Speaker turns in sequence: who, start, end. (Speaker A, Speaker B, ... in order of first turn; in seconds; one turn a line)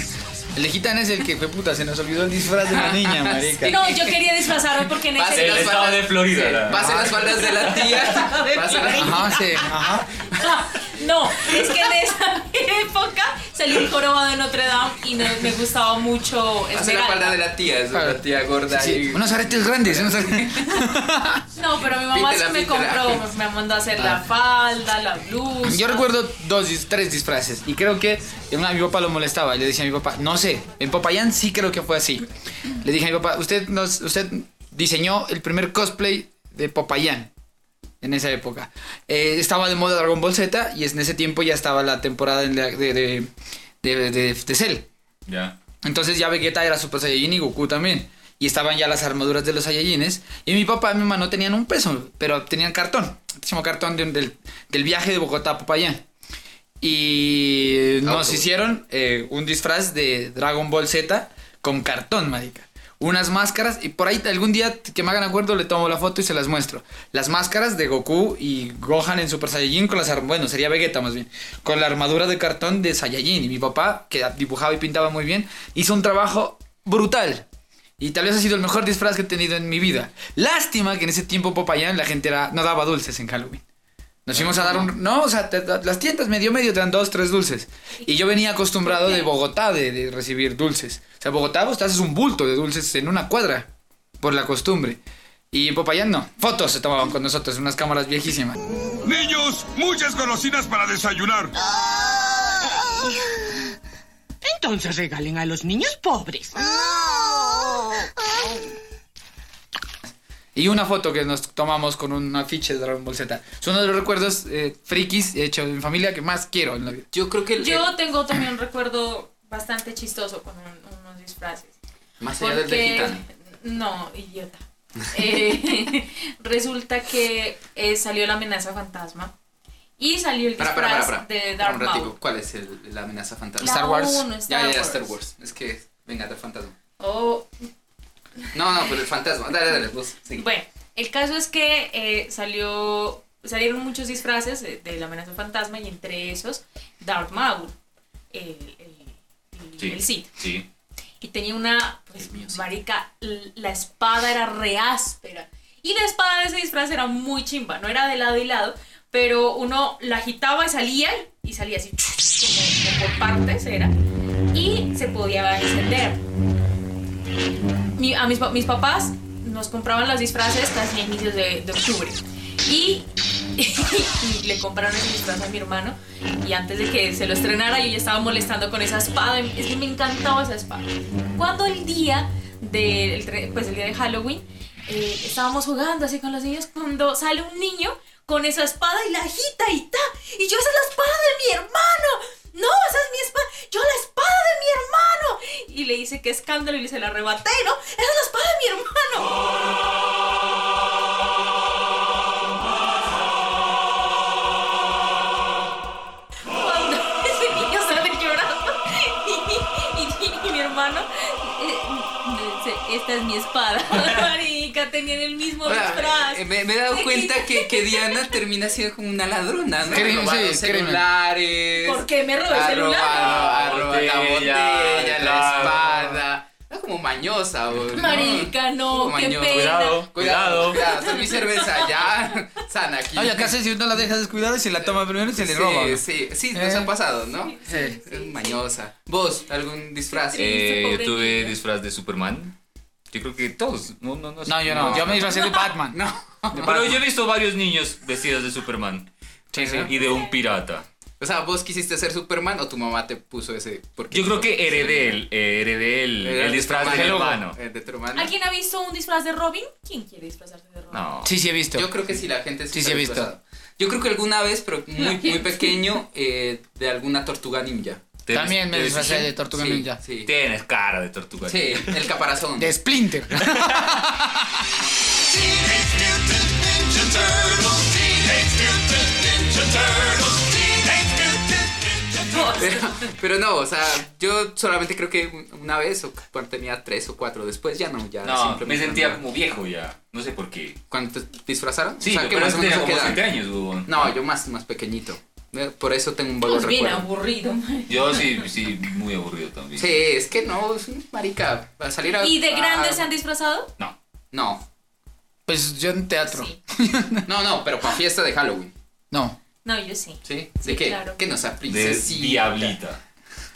Speaker A: 0.5-3.8
Speaker B: 2.7-4.2
Speaker C: 3.6-5.8
Speaker B: 5.1-9.7
Speaker D: 5.3-8.1
Speaker A: 6.7-7.2
Speaker C: 7.6-9.7
Speaker A: 8.9-10.1
Speaker C: 10.3-17.4
Speaker B: 16.7-20.8
Speaker A: 17.9-21.4
Speaker C: 21.5-26.1
Speaker B: 22.1-23.2
Speaker A: 24.0-24.2
Speaker A: 25.6-32.3
Speaker A: 32.8-37.3
Speaker A: 38.0-43.3
Speaker A: 43.8-44.9
Speaker D: 45.3-45.5
Speaker A: 45.8-56.0
Speaker A: 56.8-77.5
Speaker B: 58.0-58.4
Speaker A: 78.0-83.6
Speaker A: 84.2-93.7
Speaker B: 84.3-84.9
Speaker C: 88.0-89.3
Speaker A: 94.2-95.0
Speaker A: 95.5-98.6
Speaker E: 99.0-101.5
Speaker F: 104.4-106.7
Speaker A: 110.5-117.1
Speaker B: 117.1-117.9
Speaker C: 117.6-121.7
Speaker B: 122.2-123.2
Speaker C: 122.4-129.3
Speaker C: 130.0-132.1
Speaker B: 130.6-136.7
Speaker C: 133.6-135.1
Speaker A: 133.6-134.2
Speaker C: 137.0-137.5
Speaker B: 138.5-140.4
Speaker C: 140.4-147.7
Speaker C: 148.3-150.3
Speaker D: 149.8-150.7
Speaker C: 151.2-163.9
Speaker B: 152.2-152.6
Speaker C: 164.5-166.2
Speaker C: 167.9-173.1
Speaker C: 173.6-199.3
Speaker C: 206.5-218.3
Speaker B: 215.6-233.5
Speaker A: 219.8-221.0
Speaker C: 221.8-223.4
Speaker D: 223.0-226.2
Speaker C: 227.9-230.1
Speaker D: 229.5-230.8
Speaker C: 230.6-232.1
Speaker A: 233.1-236.9
Speaker B: 234.8-240.6
Speaker C: 237.4-238.6
Speaker C: 240.1-241.5
Speaker D: 240.3-242.5
Speaker D: 243.1-245.3
Speaker A: 244.4-246.0
Speaker B: 244.7-245.4
Speaker C: 245.3-245.7
Speaker B: 245.9-246.9
Speaker A: 246.5-246.9
Speaker D: 246.5-250.8
Speaker A: 249.5-249.9
Speaker B: 249.6-249.9
Speaker C: 250.0-250.3
Speaker B: 251.2-255.2
Speaker D: 254.1-257.6
Speaker B: 256.2-258.3
Speaker C: 258.1-261.0
Speaker D: 260.9-261.3
Speaker A: 261.2-261.9
Speaker B: 261.7-268.0
Speaker A: 262.7-263.3
Speaker C: 265.0-265.8
Speaker D: 268.2-269.3
Speaker A: 268.3-270.0
Speaker B: 269.5-270.3
Speaker D: 270.2-272.1
Speaker B: 271.4-272.8
Speaker A: 272.6-274.5
Speaker C: 282.3-282.7
Speaker B: 282.3-289.2
Speaker D: 288.2-290.8
Speaker B: 290.9-293.2
Speaker D: 292.0-294.1
Speaker B: 293.9-297.1
Speaker C: 296.4-298.3
Speaker D: 297.9-300.0
Speaker B: 299.8-303.1
Speaker C: 302.2-303.7
Speaker B: 304.3-304.6
Speaker A: 305.5-307.2
Speaker C: 306.3-306.6
Speaker B: 307.2-308.7
Speaker A: 309.1-309.4
Speaker C: 309.6-311.2
Speaker B: 310.2-312.8
Speaker D: 311.7-313.0